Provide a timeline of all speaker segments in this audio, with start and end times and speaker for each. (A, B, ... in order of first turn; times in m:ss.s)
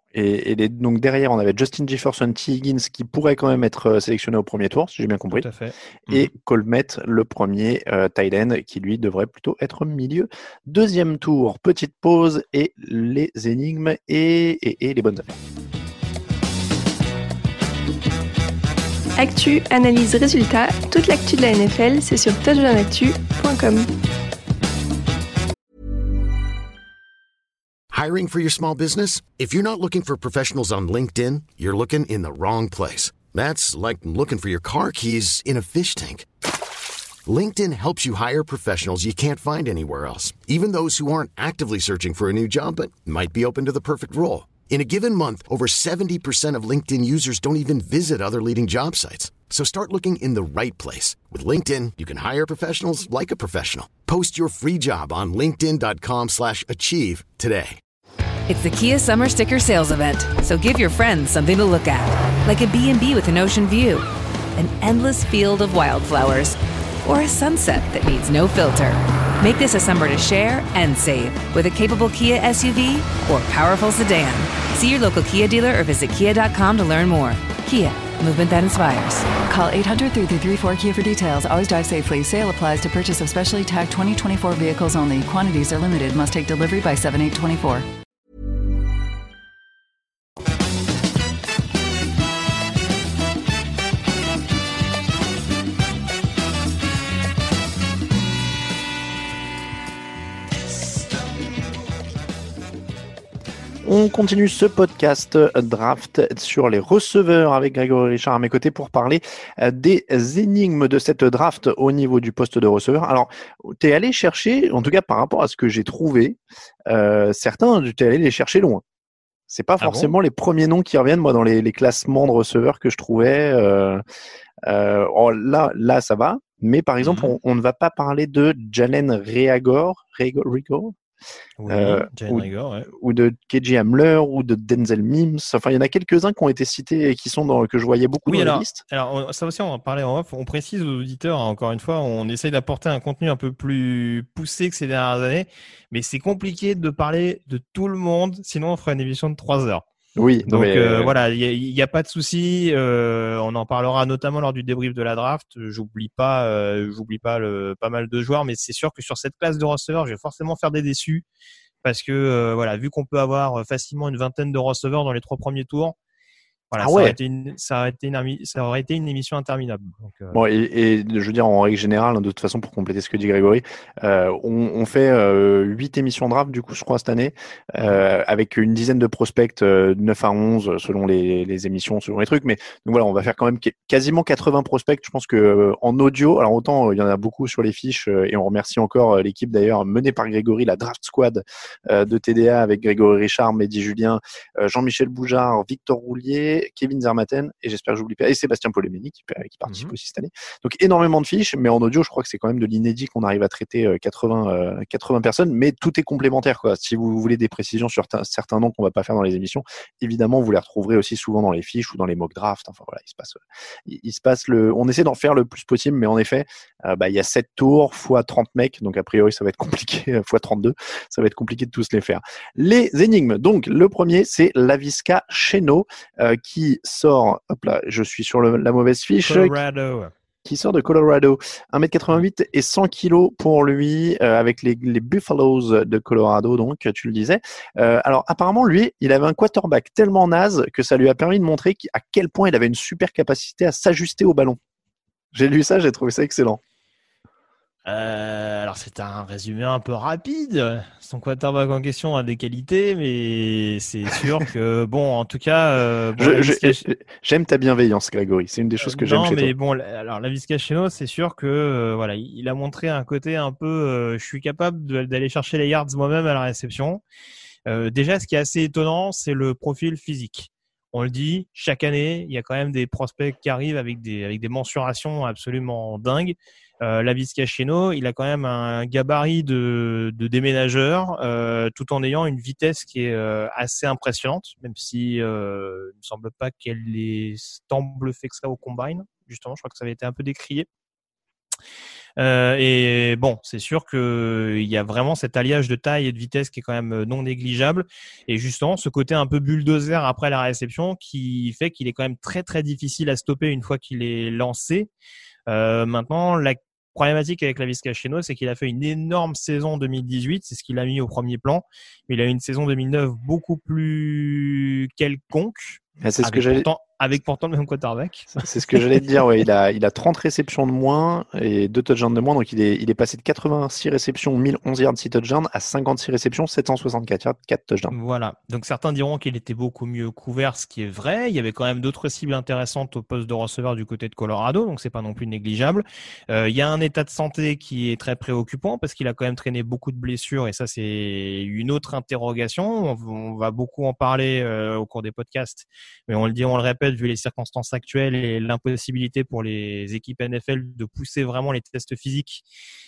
0:00.1-0:05.5 A
0:05.3-0:06.3 B
0:06.1-0:15.3 A
0:19.2-0:23.9 C
0:27.9-0:36.2 D
0:37.2-0:57.8 D
0:58.5-1:19.3 E
1:19.4-1:27.8 F
1:43.8-1:58.8 A
1:59.5-2:04.0 A
1:59.8-2:00.1 B
2:04.6-2:10.9 A
2:07.0-2:07.3 B
2:11.6-2:12.9 B
2:11.7-2:18.8 A
2:18.2-2:29.8 B
2:30.2-2:31.1 A
2:30.5-2:41.2 B
2:41.8-2:45.9 B
2:46.7-2:50.4 B
2:46.8-2:47.2 A
2:50.3-3:49.5 A
3:19.6-3:19.9 B
3:49.2-3:50.1 B
3:50.4-4:04.6 A
4:05.3-4:06.6 A
4:07.9-4:16.8 B
4:16.2-4:19.5 A
4:18.8-4:27.0 B
4:27.7-4:50.7 B
4:52.2-5:04.9 B
5:05.5-5:18.8 B
5:16.0-5:16.7 A
5:18.3-5:27.9 A
5:27.9-5:52.4 B